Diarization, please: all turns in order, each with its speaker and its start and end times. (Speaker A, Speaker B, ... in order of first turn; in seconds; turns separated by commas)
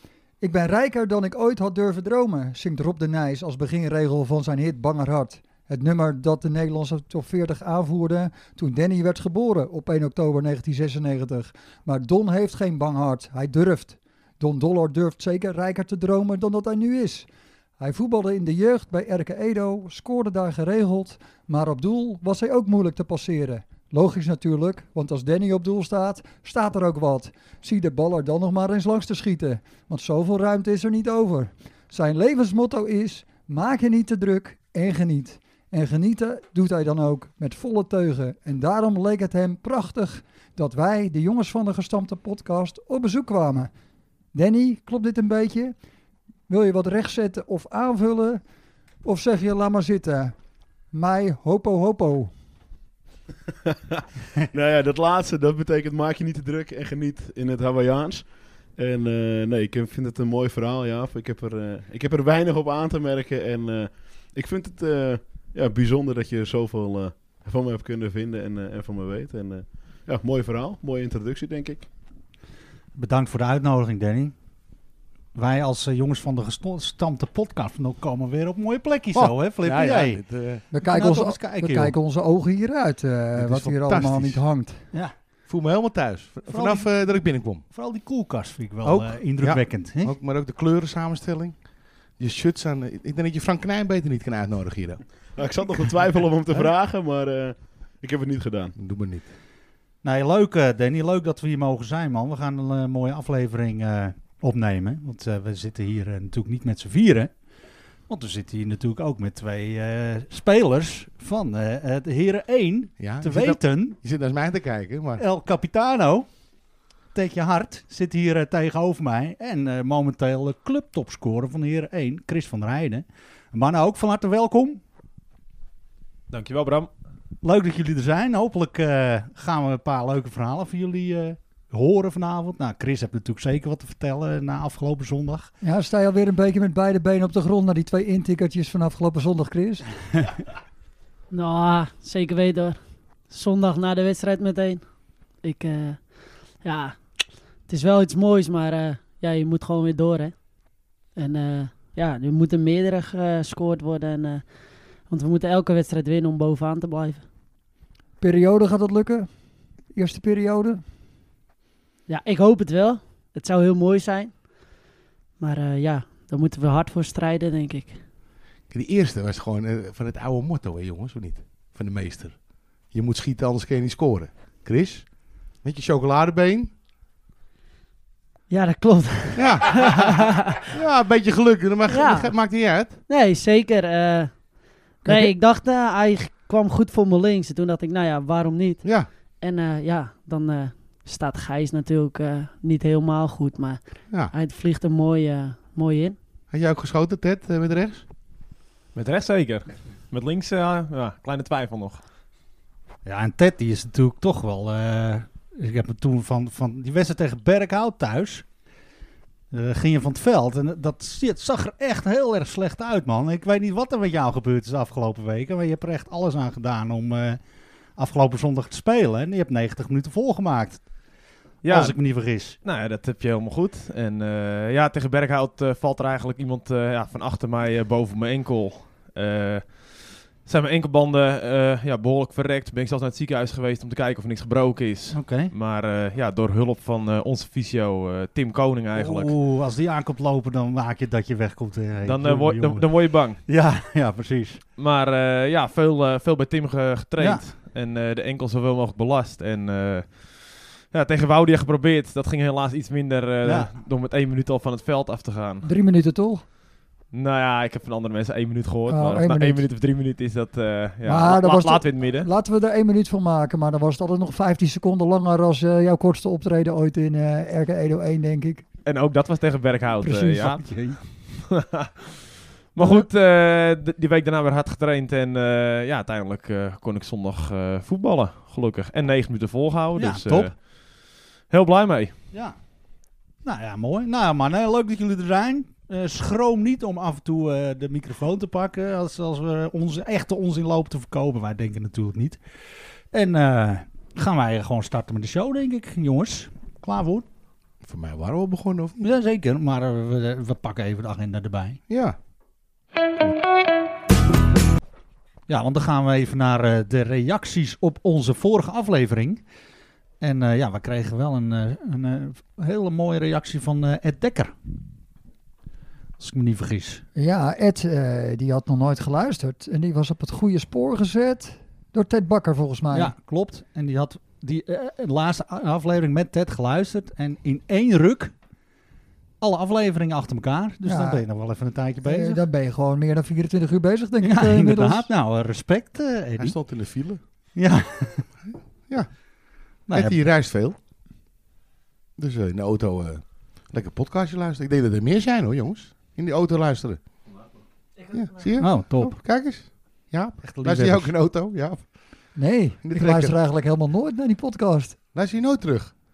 Speaker A: 0.4-17.3, Speaker A: 17.8-43.7, Speaker A: 44.3-45.7, Speaker A: 46.5-48.4, Speaker A: 49.0-50.3, Speaker A: 50.9-52.3, Speaker B: 54.4-71.9, Speaker C: 72.9-74.3, Speaker C: 75.3-80.2, Speaker D: 79.1-80.6, Speaker A: 80.7-84.8, Speaker C: 80.8-82.0, Speaker D: 83.3-84.4, Speaker D: 85.5-87.6, Speaker C: 86.4-86.9, Speaker C: 87.7-90.2, Speaker D: 88.8-91.6, Speaker D: 92.2-95.0, Speaker B: 95.3-98.7, Speaker D: 98.8-99.3, Speaker C: 100.0-107.3, Speaker C: 108.1-114.0, Speaker D: 113.0-115.2, Speaker C: 115.2-116.3, Speaker C: 117.1-124.8, Speaker E: 126.3-126.9, Speaker C: 127.4-135.5, Speaker A: 135.6-139.9, Speaker F: 141.3-144.8, Speaker F: 145.4-147.0, Speaker F: 147.7-150.3, Speaker F: 151.1-154.5, Speaker F: 155.1-157.2, Speaker A: 158.2-159.3, Speaker A: 159.9-160.8, Speaker F: 162.1-164.4, Speaker F: 165.4-168.0, Speaker D: 168.7-172.3, Speaker D: 172.9-175.1, Speaker D: 175.6-176.7, Speaker F: 178.5-180.8, Speaker D: 179.3-180.1, Speaker D: 180.7-183.0, Speaker F: 181.9-182.3, Speaker F: 183.1-196.2, Speaker D: 188.8-189.1, Speaker D: 196.5-198.0, Speaker E: 198.9-202.0, Speaker C: 203.0-208.4, Speaker C: 209.5-217.4, Speaker C: 218.0-220.8, Speaker E: 221.6-222.0, Speaker C: 221.7-222.6, Speaker E: 222.6-239.3, Speaker C: 235.1-235.5, Speaker C: 238.9-242.9, Speaker E: 242.0-243.4, Speaker C: 243.4-244.6, Speaker E: 244.8-255.7, Speaker C: 247.2-247.5, Speaker C: 253.4-253.7, Speaker A: 255.6-256.4, Speaker E: 257.1-262.3, Speaker A: 258.9-259.6, Speaker A: 261.0-268.6, Speaker E: 268.8-270.6, Speaker A: 270.0-270.5, Speaker C: 270.5-271.0, Speaker E: 271.5-271.9, Speaker E: 272.7-282.1, Speaker C: 279.9-280.5, Speaker C: 282.3-282.6, Speaker C: 283.4-292.4, Speaker C: 293.1-297.2, Speaker D: 297.8-299.1, Speaker C: 299.0-301.8, Speaker D: 301.9-302.2, Speaker C: 305.5-309.4, Speaker C: 310.2-314.5, Speaker C: 316.2-317.0, Speaker A: 317.1-323.1, Speaker C: 322.9-328.3, Speaker C: 329.4-332.4, Speaker A: 330.8-331.2, Speaker A: 332.0-335.1, Speaker C: 334.2-336.6, Speaker D: 336.4-337.2, Speaker C: 337.6-338.2, Speaker D: 338.5-339.1, Speaker C: 339.9-340.2, Speaker D: 339.9-340.8, Speaker D: 342.2-347.0, Speaker D: 348.1-351.9, Speaker C: 348.6-349.2, Speaker C: 350.4-351.1, Speaker A: 352.4-355.0, Speaker D: 352.8-353.4, Speaker D: 355.1-355.9